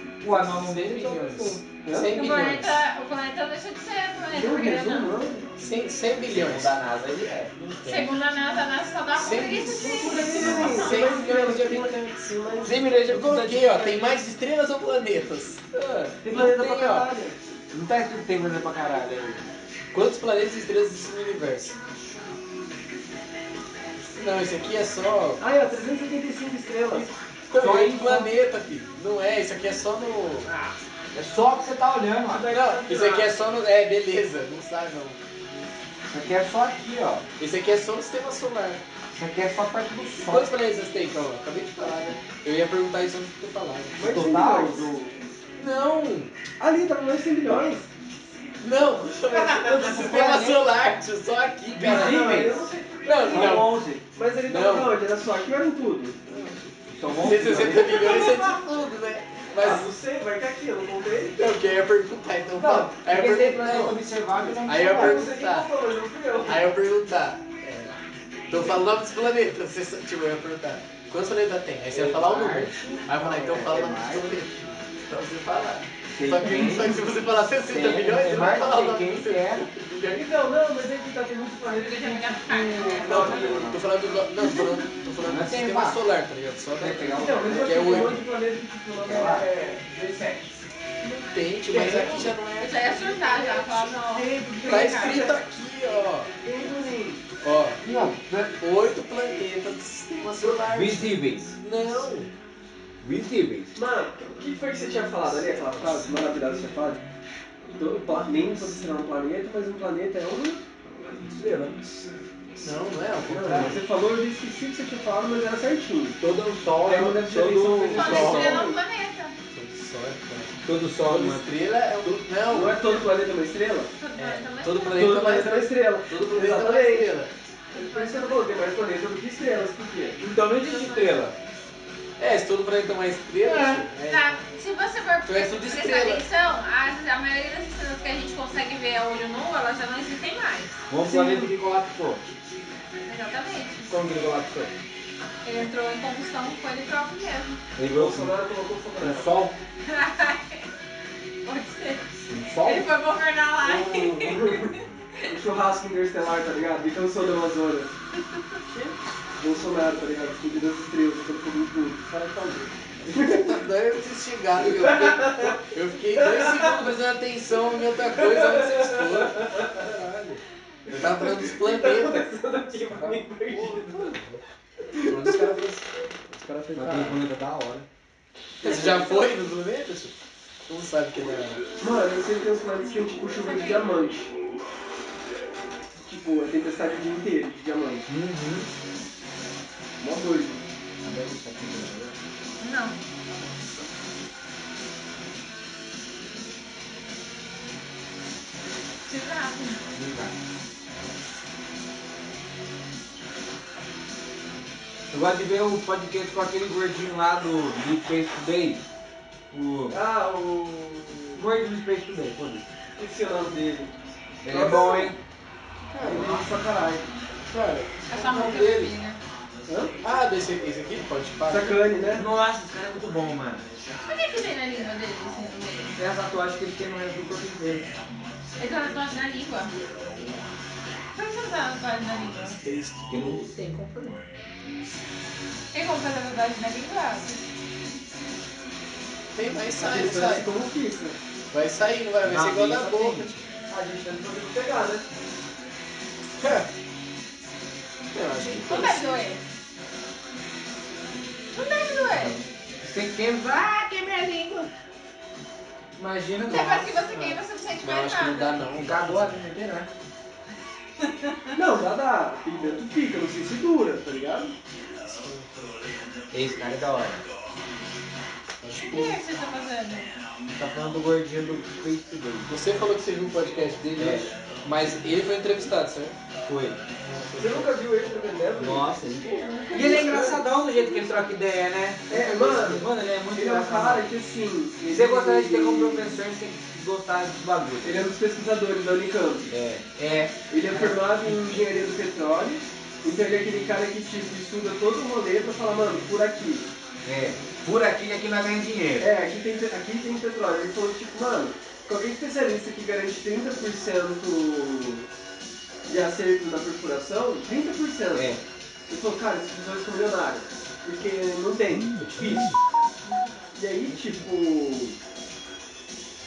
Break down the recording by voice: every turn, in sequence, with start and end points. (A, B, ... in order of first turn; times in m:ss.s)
0:00.2-0:01.6 A
0:01.8-0:02.1 B
0:01.8-0:02.8 C
0:02.1-0:05.2 D
0:04.3-0:05.5 B
0:05.6-0:06.7 C
0:06.3-0:08.1 A
0:07.8-0:11.2 D
0:09.2-0:12.0 C
0:09.9-0:13.1 B
0:10.4-0:10.9 A
0:12.6-0:14.1 A
0:13.1-0:17.1 C
0:16.2-0:17.4 B
0:17.7-0:19.4 A
0:19.9-0:21.8 C
0:24.2-0:25.4 C
0:25.4-0:27.1 B
0:26.9-0:30.5 C
0:27.5-0:28.3 A
0:30.5-0:30.8 B
0:31.1-0:32.5 A
0:32.2-0:33.3 B
0:32.5-0:35.2 C
0:36.1-0:37.2 A
0:37.4-0:38.8 C
0:39.1-0:40.5 A
0:40.2-0:44.1 C
0:44.0-0:45.1 B
0:44.0-0:44.9 A
0:45.6-0:46.3 C
0:46.6-0:47.9 B
0:48.6-0:52.5 C
0:49.3-0:50.4 B
0:50.0-0:50.7 A
0:51.7-0:52.6 A
0:51.8-0:56.3 B
0:53.0-0:53.9 C
0:53.2-0:54.0 A
0:54.5-0:55.0 C
0:56.3-0:59.9 C
0:57.0-0:58.4 A
0:58.0-0:58.4 B
0:59.6-1:01.4 B
1:01.4-1:04.0 C
1:02.6-1:05.3 A
1:04.6-1:06.7 B
1:04.6-1:05.7 C
1:06.5-1:07.9 C
1:08.5-1:14.5 C
1:11.9-1:14.4 A
1:15.1-1:19.7 C
1:16.1-1:17.0 A
1:17.6-1:19.7 A
1:19.9-1:23.7 B
1:21.6-1:23.5 D
1:23.0-1:23.8 A
1:23.0-1:28.2 C
1:25.2-1:26.0 A
1:26.8-1:28.2 A
1:27.2-1:31.1 B
1:29.0-1:29.5 A
1:31.1-1:33.3 C
1:31.7-1:32.3 A
1:31.7-1:32.3 B
1:32.6-1:35.3 D
1:33.1-1:35.4 B
1:34.6-1:36.3 C
1:36.4-1:37.2 B
1:37.4-1:37.8 C
1:37.8-1:38.5 A
1:38.5-1:42.3 C
1:40.7-1:41.6 A
1:43.0-1:43.7 A
1:43.7-1:47.0 B
1:47.7-1:50.6 B
1:51.8-1:52.1 B
1:52.6-1:53.8 C
1:53.2-1:56.2 B
1:56.2-1:58.7 A
1:56.8-1:58.8 B
1:57.8-1:58.7 C
1:57.9-1:59.4 D
1:59.5-2:00.5 C
2:00.6-2:01.5 A
2:01.0-2:03.0 C
2:02.5-2:03.9 B
2:04.0-2:05.3 D
2:04.2-2:04.5 A
2:04.6-2:07.3 C
2:04.9-2:07.2 B
2:07.7-2:08.5 D
2:07.7-2:10.2 B
2:10.2-2:11.4 A
2:10.6-2:11.2 D
2:12.2-2:14.2 C
2:13.4-2:20.8 D
2:15.2-2:16.2 C
2:20.9-2:22.3 A
2:21.0-2:21.5 B
2:23.1-2:23.9 D
2:23.9-2:24.7 A
2:25.4-2:27.6 D
2:27.8-2:28.4 A
2:27.8-2:29.4 B
2:29.0-2:29.6 A
2:29.9-2:30.7 D
2:31.4-2:32.0 D
2:32.3-2:32.9 A
2:32.6-2:35.3 D
2:33.6-2:37.9 B
2:38.7-2:43.6 B
2:43.1-2:52.3 C
2:44.6-2:45.6 B
2:46.1-2:46.9 B
2:48.1-2:49.7 B
2:50.9-2:54.1 B
2:52.9-2:54.4 C
2:54.9-2:55.6 B
2:55.0-2:57.2 C
2:56.8-2:57.9 A
2:58.6-2:59.3 B
2:58.6-3:00.2 C
3:00.7-3:01.6 C
3:01.8-3:04.3 B
3:03.4-3:03.9 D
3:06.0-3:08.1 B
3:08.1-3:08.7 A
3:10.0-3:10.6 B
3:11.0-3:12.2 A
3:12.6-3:13.0 D
3:19.1-3:20.0 D
3:20.0-3:20.4 A
3:25.1-3:28.8 A
3:29.5-3:30.0 A
3:29.9-3:31.4 B
3:31.4-3:32.6 A
3:33.0-3:33.9 B
3:34.4-3:35.2 A
3:34.5-3:35.1 B
3:35.9-3:36.4 C
3:36.0-3:37.1 B
3:37.5-3:38.9 C
3:38.1-3:39.2 D
3:39.7-3:40.0 B
3:40.0-3:41.8 C
3:41.5-3:42.3 B
3:42.1-3:43.6 A
3:44.0-3:46.0 D
3:46.0-3:47.9 A
3:48.6-3:49.7 D
3:51.2-3:52.6 D
3:52.6-3:53.5 C
3:53.1-3:54.2 A
3:55.7-3:57.4 D
3:59.3-4:00.5 C
3:59.8-4:01.2 B
4:01.5-4:03.3 C
4:02.2-4:03.5 A
4:03.7-4:05.1 B
4:06.4-4:06.7 C
4:08.1-4:09.2 C
4:08.7-4:09.4 D
4:11.5-4:12.4 D
4:12.8-4:14.7 A
4:16.0-4:17.0 A
4:16.4-4:18.6 D
4:17.1-4:19.4 C
4:18.8-4:19.9 A
4:21.0-4:21.6 D
4:21.5-4:24.5 B
4:25.0-4:25.5 C
4:26.3-4:27.2 A
4:28.6-4:29.2 C
4:28.9-4:30.1 D
4:30.5-4:32.5 A
4:32.5-4:36.2 C
4:34.0-4:34.3 A
4:36.5-4:36.8 A
4:37.0-4:37.8 C
4:37.4-4:40.4 B
4:38.6-4:44.1 A
4:39.4-4:40.0 D
4:42.1-4:46.2 B
4:44.8-4:48.0 A
4:47.8-4:49.5 B
4:49.5-4:51.5 A
4:50.5-4:56.7 B
4:57.0-4:59.1 A
4:59.0-5:05.1 B
5:05.9-5:08.4 B
5:08.1-5:08.4 A
5:08.9-5:12.5 B
5:13.6-5:15.0 B